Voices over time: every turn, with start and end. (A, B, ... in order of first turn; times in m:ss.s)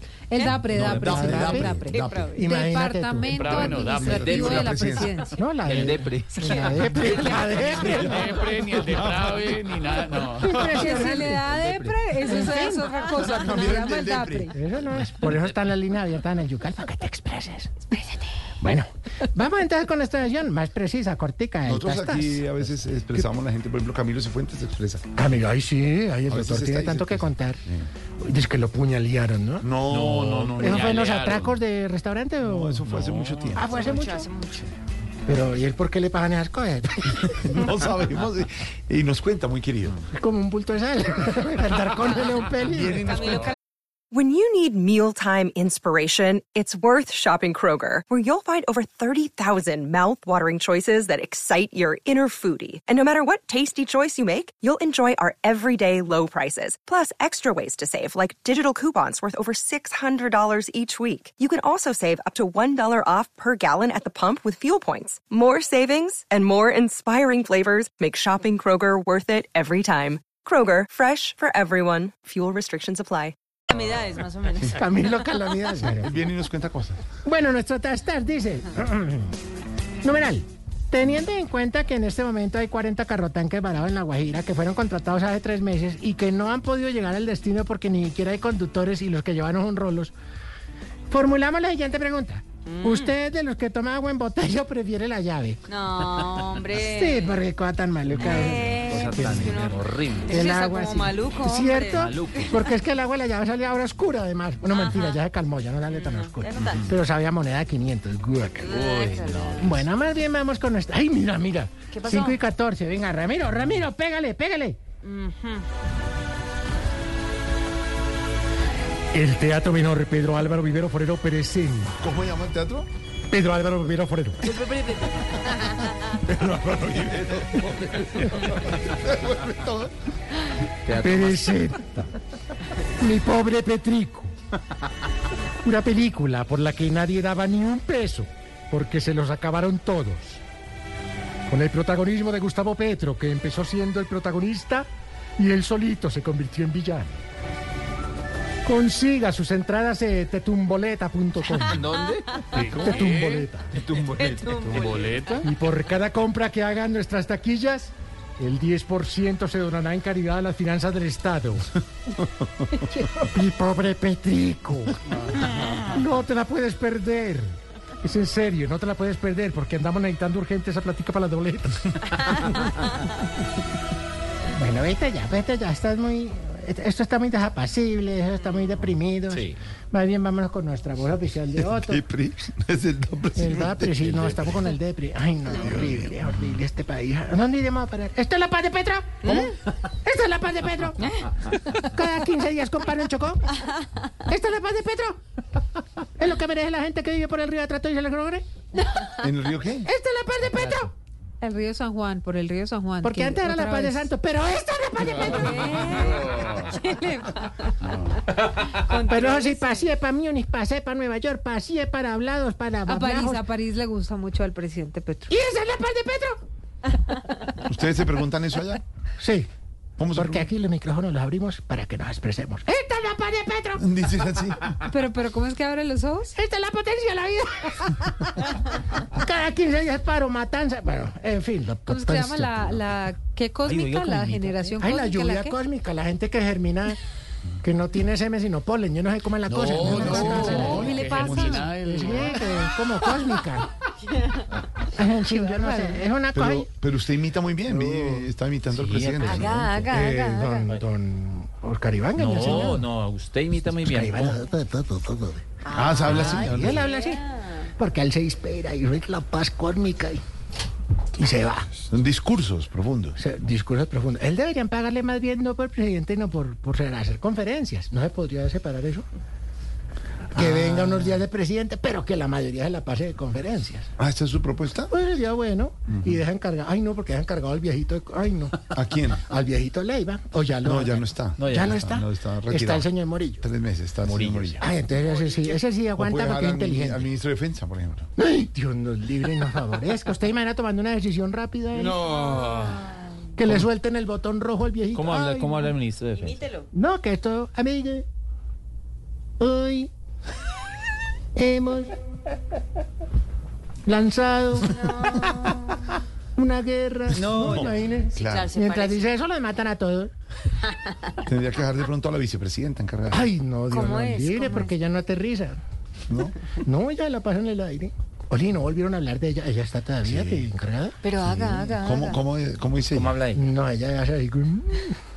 0:00.3-0:05.5 A
0:00.7-0:01.8 B
0:00.7-0:02.4 C
0:00.8-0:08.5 D
0:01.9-0:02.4 E
0:03.3-0:04.3 F
0:04.1-0:05.0 B
0:04.1-0:05.2 C
0:05.6-0:07.0 B
0:06.4-0:06.9 E
0:07.0-0:07.5 A
0:07.0-0:09.6 C
0:07.3-0:10.9 F
0:10.4-0:11.4 D
0:10.6-0:14.6 A
0:10.8-0:12.2 B
0:12.2-0:12.9 D
0:13.2-0:14.5 C
0:14.5-0:22.5 D
0:21.6-0:25.1 C
0:25.2-0:27.6 D
0:26.3-0:27.9 C
0:28.2-0:29.7 D
0:29.6-0:31.2 C
0:29.9-0:30.9 B
0:30.6-0:32.8 D
0:30.6-0:31.6 F
0:32.4-0:33.7 C
0:32.9-0:33.6 B
0:33.6-0:34.3 D
0:33.7-0:34.7 E
0:35.3-0:37.6 D
0:37.4-0:40.0 C
0:40.1-0:43.1 D
0:42.6-0:43.6 C
0:43.1-0:43.6 E
0:44.2-1:13.3 G
1:13.7-1:15.0 E
1:14.6-1:16.2 D
1:15.9-1:17.0 C
1:17.2-1:19.4 D
1:20.0-1:30.1 D
1:31.1-1:35.6 D
1:32.6-1:33.2 E
1:35.7-1:37.5 E
1:36.8-1:48.8 D
1:38.1-1:40.4 B
1:38.2-1:42.8 E
1:41.9-1:42.6 B
1:44.7-1:45.3 E
1:45.9-1:46.9 E
1:46.7-1:46.9 B
1:48.6-1:49.8 E
1:48.7-1:49.7 B
1:49.6-1:54.8 D
1:51.9-1:52.4 E
1:55.0-1:55.7 E
1:59.1-2:02.0 D
2:02.0-2:02.9 C
2:03.3-2:04.4 D
2:06.1-2:09.9 C
2:10.8-2:11.6 B
2:10.9-2:12.1 D
2:13.0-2:14.3 D
2:15.6-2:20.4 D
2:21.5-2:27.2 D
2:28.7-2:31.9 D
2:31.6-2:32.4 B
2:31.9-2:33.0 E
2:32.5-2:33.5 F
2:32.7-2:33.1 C
2:32.8-2:33.7 D
2:33.7-2:35.1 C
2:34.0-2:35.5 E
2:34.7-2:35.5 F
2:35.4-2:41.7 D
2:42.8-2:52.0 D
2:54.6-3:02.0 D
2:59.3-2:59.6 B
3:01.7-3:04.6 C
3:03.4-3:11.0 D
3:05.5-3:06.3 C
3:09.2-3:09.5 E
3:11.8-3:15.2 D
3:16.2-3:19.2 D
3:19.2-3:19.9 C
3:19.8-3:20.9 D
3:21.4-3:24.1 A
3:23.0-3:26.3 D
3:25.0-3:26.8 F
3:25.3-3:25.8 A
3:26.9-3:27.3 A
3:27.8-3:28.2 F
3:28.5-3:29.9 E
3:29.1-3:33.4 D
3:32.9-3:35.3 A
3:35.3-3:36.4 D
3:37.6-3:38.8 C
3:39.2-3:39.5 D
3:40.0-3:40.5 C
3:40.1-3:43.8 D
3:43.8-3:44.6 C
3:44.8-3:46.4 A
3:46.4-3:52.8 D
3:51.9-3:55.6 A
3:53.6-3:54.8 B
3:54.8-3:57.0 D
3:57.6-4:01.1 D
3:59.5-4:02.4 F
3:59.8-4:01.7 C
4:00.5-4:02.4 A
4:01.8-4:03.7 D
4:05.0-4:06.7 D
4:05.3-4:06.0 A
4:06.3-4:09.6 C
4:07.7-4:10.0 B
4:09.2-4:10.7 E
4:09.9-4:12.8 D
4:10.6-4:10.9 B
4:12.2-4:14.5 B
4:13.8-4:15.4 D
4:15.6-4:17.6 E
4:15.7-4:16.8 C
4:16.1-4:17.2 D
4:16.1-4:16.8 B
4:17.8-4:20.2 D
4:21.2-4:21.7 D
4:21.9-4:23.2 C
4:23.2-4:29.0 D
4:30.3-4:33.9 D
4:30.3-4:31.3 C
4:34.0-4:34.9 C
4:34.9-4:38.6 D
4:35.9-4:36.2 C
4:38.7-4:39.2 C
4:39.2-4:43.4 D
4:40.6-4:44.6 C
4:41.4-4:42.0 B
4:44.0-4:44.6 B
4:44.6-4:47.1 D
4:46.0-4:48.1 C
4:48.2-4:52.1 D
4:51.8-4:52.8 B
4:52.1-4:52.8 E
4:53.4-4:55.8 D
4:53.4-4:53.7 B
4:54.9-4:56.4 B
4:56.1-4:56.7 E
4:56.7-4:58.1 D
4:59.4-4:59.9 D
5:01.4-5:02.0 D
5:03.9-5:05.5 D
5:04.8-5:05.8 E
5:06.4-5:10.1 D
5:07.1-5:08.5 C
5:07.2-5:07.6 B
5:08.2-5:09.1 E
5:11.2-5:13.3 C
5:13.1-5:15.6 D
5:13.7-5:14.8 E
5:16.1-5:16.4 C
5:16.6-5:21.0 D
5:20.0-5:20.5 C
5:21.0-5:22.2 E
5:21.2-5:23.2 C
5:22.9-5:23.4 B
5:23.3-5:25.0 D